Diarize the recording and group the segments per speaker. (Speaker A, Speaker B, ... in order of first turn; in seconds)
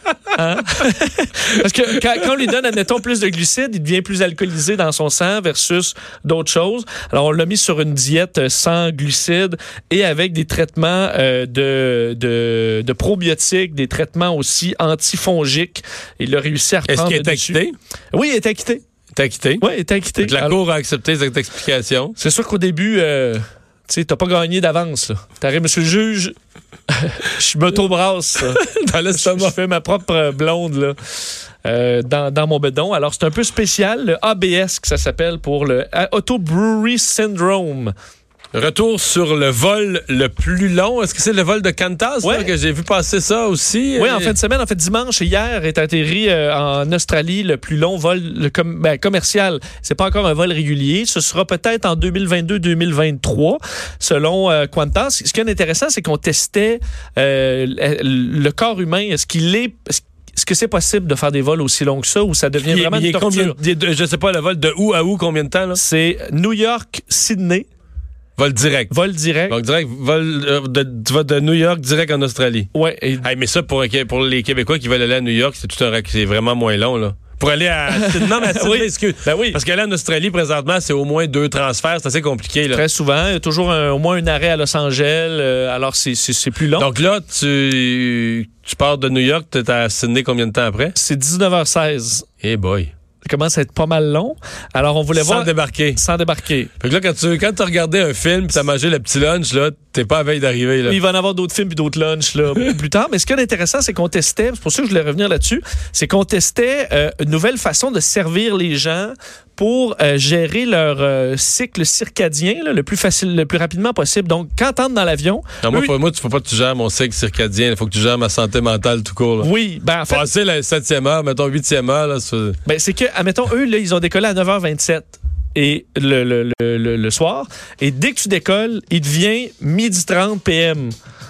Speaker A: 0.3-17.6, 18.1-18.8, 19.6-20.6, 22.2-26.3, 26.9-28.6, 29.1-30.9, 31.6-37.9, 42.2-42.5, 44.0-63.5, 65.7-67.7, 68.9-69.6, 72.7-73.2, 77.9-79.6, 82.7-86.9, 91.0-92.3, 93.2-96.7, 100.8-115.9, 119.4-120.2, 122.6-130.9
Speaker B: 16.9-17.8, 19.1-19.6, 20.2-22.1, 28.4-29.5, 38.5-44.3, 62.6-65.8, 68.4-68.9, 69.5-82.8, 86.8-91.0, 92.4-92.9, 95.1-96.0, 96.8-101.0, 115.6-119.5, 120.1-122.6